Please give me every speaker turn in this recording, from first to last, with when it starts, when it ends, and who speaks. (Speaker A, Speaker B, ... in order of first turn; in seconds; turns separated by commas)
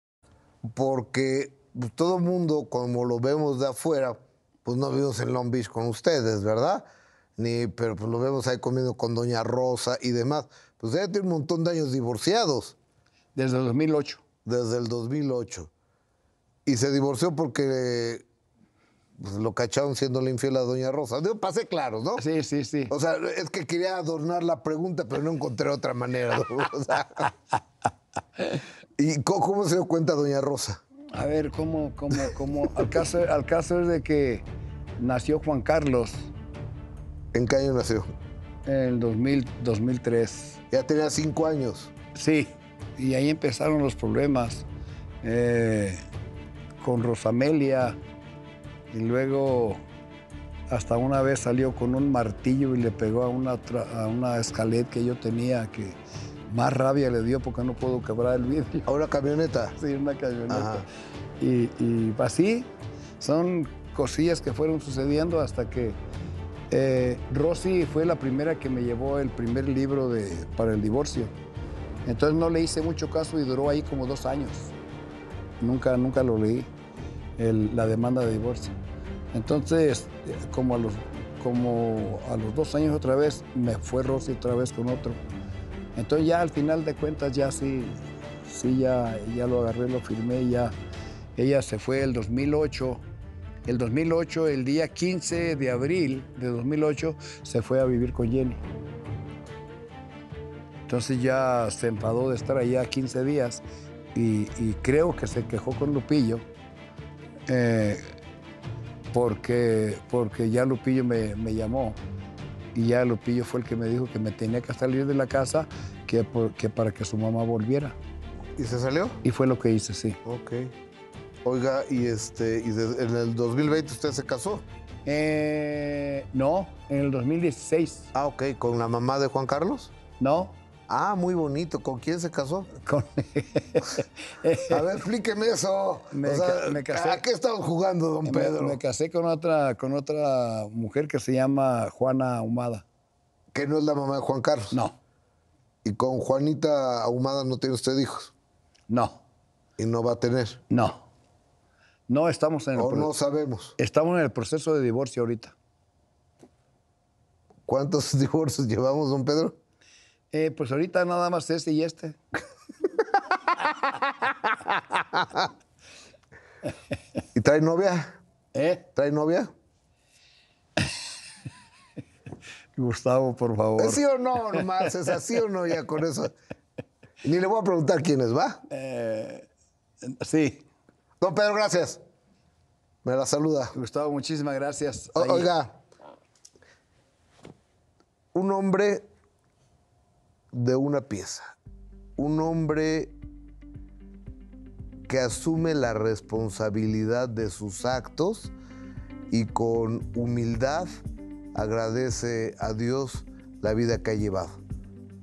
Speaker A: 0.7-6.8, Speaker A: 7.4-12.8, Speaker B: 13.3-14.2, Speaker A: 14.4-15.7, Speaker A: 16.6-18.2, Speaker A: 19.2-22.2, Speaker B: 22.1-22.9, Speaker A: 22.9-27.3, Speaker A: 29.0-30.8, Speaker B: 31.1-34.4, Speaker B: 35.0-36.3, Speaker A: 37.3-38.1, Speaker B: 38.6-40.6, Speaker A: 40.7-41.9, Speaker B: 42.1-44.6, Speaker B: 45.2-46.0, Speaker B: 46.8-48.0, Speaker B: 48.9-49.8, Speaker B: 50.7-58.9, Speaker A: 58.9-59.8, Speaker B: 59.8-60.8, Speaker A: 60.5-60.9, Speaker B: 61.4-62.7, Speaker B: 63.2-66.0, Speaker B: 66.7-71.3, Speaker B: 72.0-74.7, Speaker B: 75.6-76.7, Speaker B: 77.4-78.7, Speaker B: 79.3-85.2, Speaker B: 86.0-90.8, Speaker B: 91.3-93.0, Speaker B: 93.6-98.6, Speaker B: 100.9-103.6, Speaker B: 104.1-106.5, Speaker B: 107.5-108.0, Speaker B: 109.1-112.0, Speaker B: 112.7-118.0, Speaker A: 118.6-119.2, Speaker B: 119.2-120.2, Speaker A: 120.2-120.7, Speaker A: 121.4-124.6, Speaker B: 125.0-128.1, Speaker A: 128.1-129.9, Speaker B: 130.2-130.6, Speaker A: 130.9-132.7, Speaker B: 132.7-134.9, Speaker A: 134.7-138.8, Speaker B: 136.1-137.2, Speaker B: 138.2-142.8, Speaker A: 143.5-144.8, Speaker A: 145.8-148.3, Speaker B: 148.9-149.2, Speaker A: 149.8-150.6, Speaker B: 150.7-151.0, Speaker B: 152.1-153.1, Speaker A: 152.8-153.8, Speaker B: 153.8-155.5, Speaker A: 157.7-159.6, Speaker B: 160.3-162.2, Speaker A: 163.5-165.5, Speaker A: 167.3-168.1, Speaker B: 168.5-168.9, Speaker A: 168.9-169.5, Speaker B: 172.8-174.7, Speaker A: 173.8-176.3, Speaker A: 177.2-178.6, Speaker B: 178.7-179.5, Speaker B: 180.0-180.6, Speaker A: 181.2-182.0, Speaker A: 183.0-183.7, Speaker B: 183.7-185.5, Speaker A: 185.1-185.7, Speaker A: 188.3-189.1, Speaker A: 190.5-191.5, Speaker A: 192.2-193.1, Speaker A: 195.1-198.5, Speaker A: 199.3-200.9, Speaker A: 201.5-204.6